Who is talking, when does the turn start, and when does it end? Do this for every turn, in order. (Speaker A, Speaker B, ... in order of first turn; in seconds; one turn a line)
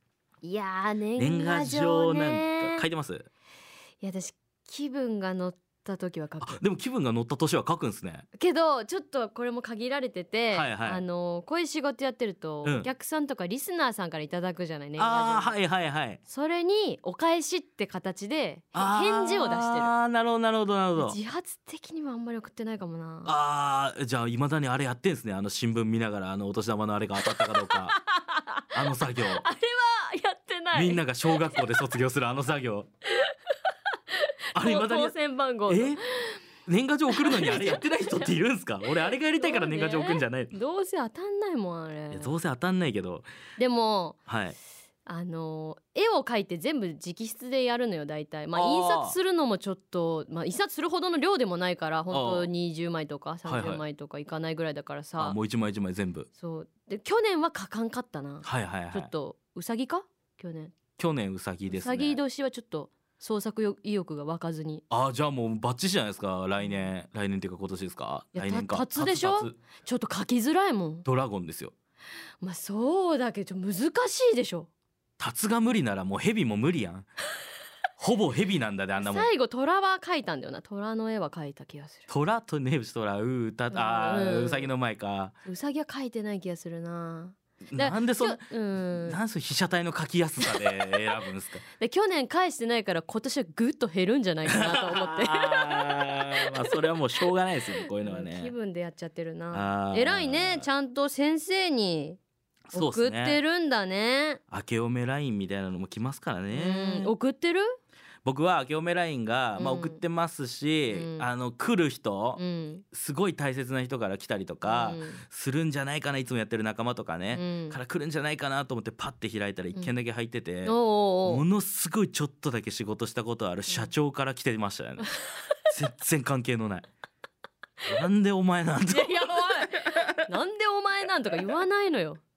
Speaker A: 0.4-2.9
Speaker B: 1.2-3.3
Speaker A: 4.0-6.6
Speaker B: 6.4-8.2
Speaker A: 8.4-15.6
Speaker B: 10.5-11.0
Speaker B: 12.6-12.9
Speaker B: 15.0-16.2
Speaker A: 16.3-19.9
Speaker B: 18.7-21.2
Speaker A: 20.9-23.3
Speaker B: 23.2-27.9
Speaker A: 27.7-31.7
Speaker B: 28.7-29.4
Speaker B: 30.7-32.9
Speaker A: 34.1-36.4
Speaker B: 34.5-35.1
Speaker B: 35.7-36.0
Speaker B: 36.6-40.5
Speaker A: 37.1-38.3
Speaker A: 39.3-42.4
Speaker B: 42.1-43.3
Speaker A: 43.6-44.2
Speaker B: 44.3-44.6
Speaker A: 45.0-55.4
Speaker B: 48.5-49.2
Speaker B: 52.1-52.5
Speaker B: 53.5-53.8
Speaker B: 55.2-56.3
Speaker A: 56.4-60.8
Speaker B: 58.4-59.1
Speaker B: 61.0-62.2
Speaker A: 61.7-64.8
Speaker B: 64.9-69.6
Speaker A: 66.6-66.9
Speaker A: 68.3-71.0
Speaker B: 71.0-71.7
Speaker A: 72.4-74.7
Speaker B: 75.2-77.1
Speaker B: 78.0-79.3
Speaker A: 79.0-82.1
Speaker B: 82.1-85.3
Speaker A: 83.7-84.7
Speaker A: 85.5-89.2
Speaker B: 87.7-91.6
Speaker A: 91.8-96.4
Speaker B: 94.5-98.5
Speaker A: 97.8-102.2
Speaker B: 99.5-100.7
Speaker B: 102.7-103.4
Speaker A: 102.7-104.4
Speaker B: 104.5-107.1
Speaker A: 106.5-107.7
Speaker B: 108.2-125.1
Speaker A: 109.5-110.0
Speaker A: 110.9-111.3
Speaker A: 112.4-112.8
Speaker A: 114.6-115.2
Speaker A: 117.3-117.8
Speaker A: 120.6-121.4
Speaker B: 125.7-126.8
Speaker B: 127.8-130.0
Speaker A: 128.9-132.2